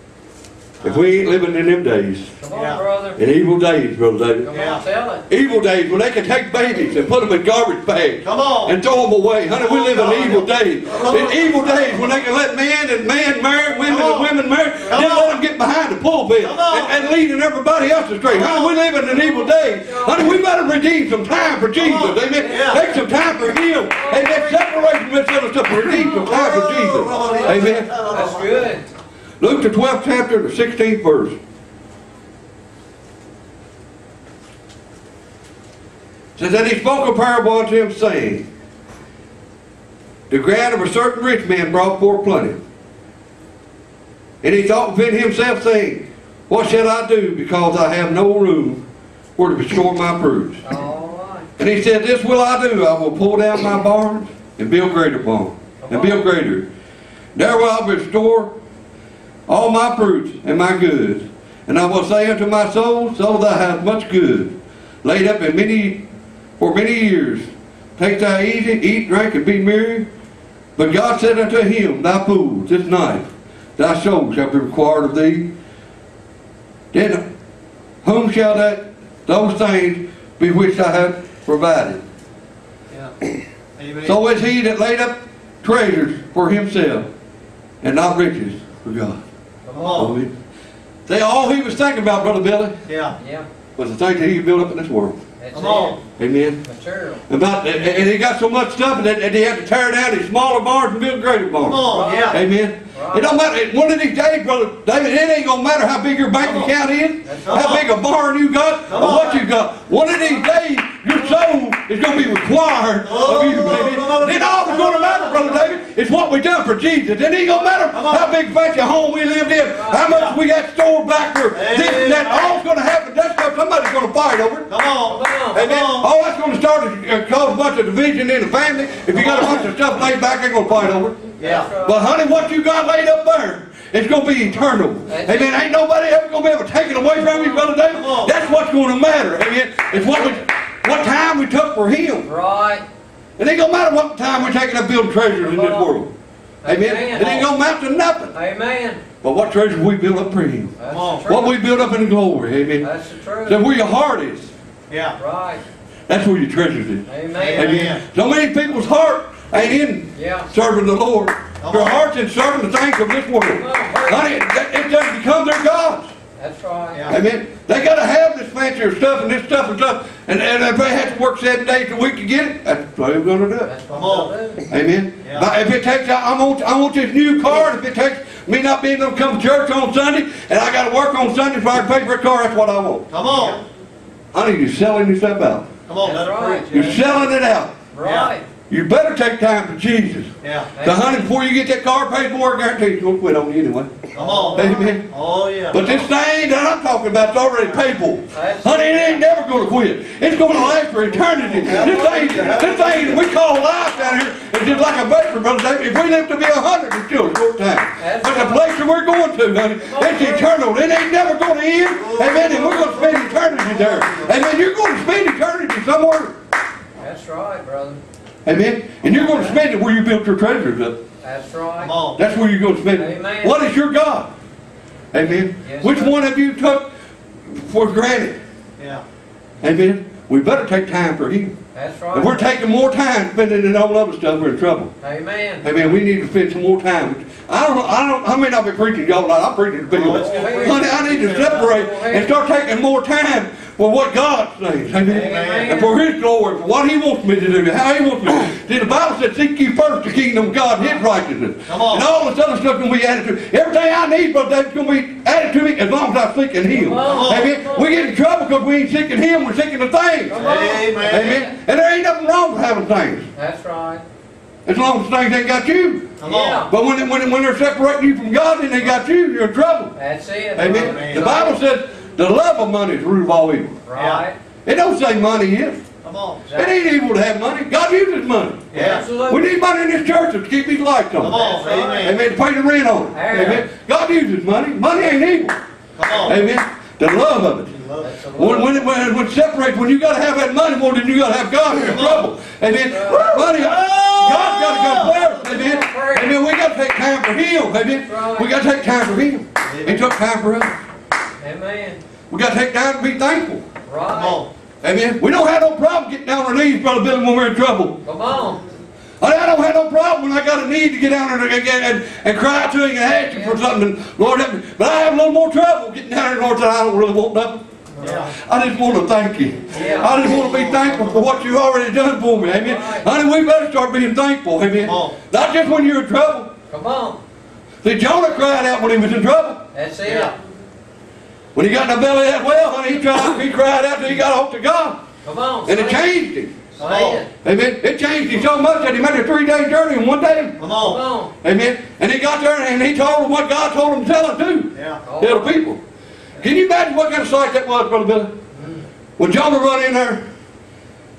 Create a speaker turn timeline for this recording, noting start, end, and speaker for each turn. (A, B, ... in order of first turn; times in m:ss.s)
0:00.8-0:01.1 A
0:00.8-0:02.4 B
0:02.4-0:03.2 C
0:02.5-0:02.8 A
0:03.2-0:04.5 B
0:04.4-0:05.2 C
0:04.5-0:04.8 A
0:05.3-0:27.9 B
0:08.2-0:08.7 A
0:09.5-0:12.2 A
0:13.8-0:14.3 A
0:14.8-0:15.4 A
0:16.4-0:17.1 A
0:18.3-0:18.7 A
0:19.0-0:20.4 C
0:21.8-0:22.9 A
0:22.4-0:23.1 C
0:23.6-0:24.7 C
0:25.8-0:28.7 A
0:25.8-0:28.8 C
0:29.4-0:31.4 B
0:36.4-0:38.5 B
0:40.3-0:42.6 B
0:44.4-0:48.9 B
0:49.4-0:50.6 B
0:50.6-0:51.5 C
0:51.6-0:56.7 B
0:55.8-0:56.2 C
0:57.4-0:58.6 B
0:59.5-1:06.0 B
1:06.6-1:10.1 B
1:10.8-1:15.5 B
1:16.9-1:17.3 B
1:18.0-1:22.0 B
1:23.8-1:24.2 A
1:24.0-1:27.1 B
1:27.8-1:29.2 B
1:29.6-1:30.2 C
1:29.7-1:30.1 A
1:29.9-1:30.3 B
1:31.1-1:32.8 B
1:32.9-1:33.2 A
1:33.2-1:33.5 C
1:33.8-1:35.2 B
1:35.4-1:36.0 C
1:35.5-1:36.0 A
1:36.2-1:36.6 B
1:36.6-1:37.2 C
1:37.3-2:04.7 B
1:41.6-1:42.4 A
1:41.8-1:43.4 C
1:46.4-1:46.7 A
1:47.2-1:47.8 C
1:47.4-1:47.8 A
1:48.9-1:49.4 A
1:53.0-1:55.7 A
1:57.9-1:58.4 A
1:59.6-2:00.3 C
2:00.1-2:00.4 A
2:01.5-2:02.6 A
2:04.7-2:06.1 A
2:05.1-2:05.6 C
2:05.5-2:22.3 B
2:09.1-2:09.6 A
2:11.4-2:11.7 A
2:11.4-2:12.2 C
2:15.1-2:15.6 C
2:17.0-2:17.7 C
2:17.9-2:18.4 A
2:22.2-2:22.8 C
2:23.4-2:26.1 B
2:25.3-2:26.0 C
2:26.6-2:27.5 C
2:26.6-2:28.4 B
2:28.3-2:29.0 C
2:29.2-2:30.8 B
2:30.8-2:31.6 C
2:30.9-2:31.3 A
2:31.3-2:32.9 B
2:32.8-2:33.6 C
2:33.4-2:34.5 B
2:34.9-2:35.2 A
2:35.2-2:35.6 C
2:36.1-2:46.1 B
2:37.1-2:37.9 C
2:37.3-2:38.0 A
2:40.2-2:40.5 C
2:41.6-2:42.0 A
2:43.5-2:44.3 C
2:46.4-2:47.1 C
2:46.9-2:47.2 A
2:47.1-2:53.7 B
2:53.6-2:54.6 C
2:53.9-2:54.3 A
2:54.7-3:03.1 B
2:55.2-2:55.5 A
3:03.1-3:03.6 A
3:04.3-3:05.7 B
3:05.9-3:07.0 A
3:06.0-3:07.0 C
3:06.7-3:07.8 B
3:07.9-3:08.5 C
3:08.0-3:08.3 A
3:08.7-3:14.0 B
3:10.4-3:10.7 A
3:10.8-3:11.3 C
3:14.1-3:16.0 A
3:14.2-3:14.9 C
3:14.6-3:15.1 B
3:15.7-3:36.4 B
3:18.3-3:19.3 C
3:21.2-3:23.2 A
3:28.0-3:28.7 C
3:29.8-3:30.5 C
3:31.8-3:34.4 A
3:37.0-3:38.0 C
3:38.4-3:41.0 B
3:39.1-3:39.5 A
3:41.2-3:42.0 C
3:41.8-3:42.2 A
3:42.2-3:44.3 B
3:43.0-3:43.6 C
3:45.1-3:46.9 B
3:45.6-3:46.2 C
3:47.5-3:48.4 B
3:48.8-3:49.0 A
3:49.6-3:51.6 B
3:51.7-3:52.5 C
3:52.1-3:54.9 B
3:55.0-3:55.7 C
3:55.6-4:23.3 B
3:59.9-4:01.7 A
4:00.0-4:02.4 C
4:05.0-4:05.7 A
4:05.1-4:05.9 C
4:11.7-4:12.1 A
4:16.7-4:18.2 C
4:17.0-4:17.5 A
4:20.3-4:21.5 C
4:20.3-4:21.4 A
4:23.4-4:24.0 C
4:24.7-4:30.0 B
4:26.2-4:26.7 A
4:26.2-4:26.7 C
4:30.0-4:31.6 C
4:30.6-4:33.8 B
4:30.6-4:31.4 A
4:33.9-4:34.4 C
4:34.0-4:34.2 A
4:34.7-4:35.9 B
4:36.0-4:36.5 A
4:36.4-4:36.8 C
4:36.5-4:47.7 B
4:38.7-4:39.1 A
4:38.7-4:39.5 C
4:41.2-4:42.2 A
4:41.3-4:42.0 C
4:43.1-4:43.7 C
4:46.0-4:46.4 A
4:47.7-4:48.1 A
4:48.0-4:48.9 C
4:48.4-5:00.8 B
4:51.7-4:52.3 A
4:52.8-4:53.4 C
4:53.1-4:55.2 A
4:55.0-4:56.4 C
4:57.8-4:58.5 C
4:59.7-5:00.1 A
5:01.4-5:02.0 C
5:02.3-5:03.7 B
5:03.9-5:04.4 C
5:04.1-5:04.5 A
5:04.8-5:08.0 B
5:08.0-5:08.6 C
5:09.2-5:17.7 B
5:13.1-5:13.7 C
5:18.0-5:18.3 A
5:18.0-5:18.3 C
5:18.3-5:26.5 B
5:19.7-5:21.0 C
5:22.4-5:23.1 C
5:24.8-5:25.2 A
5:26.7-5:27.2 C
5:27.8-5:29.7 B
5:29.7-5:30.4 C
5:30.0-5:30.3 A
5:31.6-5:35.0 B
5:35.2-5:36.1 C
5:35.7-5:36.7 B
5:36.7-5:37.3 C
5:36.8-5:37.2 A
5:37.3-5:40.6 B
5:40.6-5:41.0 A
5:40.7-5:41.3 C
5:41.4-5:45.8 B
5:44.7-5:45.0 A
5:45.0-5:45.6 C
5:46.4-5:48.4 B
5:48.5-5:48.8 C
5:49.2-5:50.2 B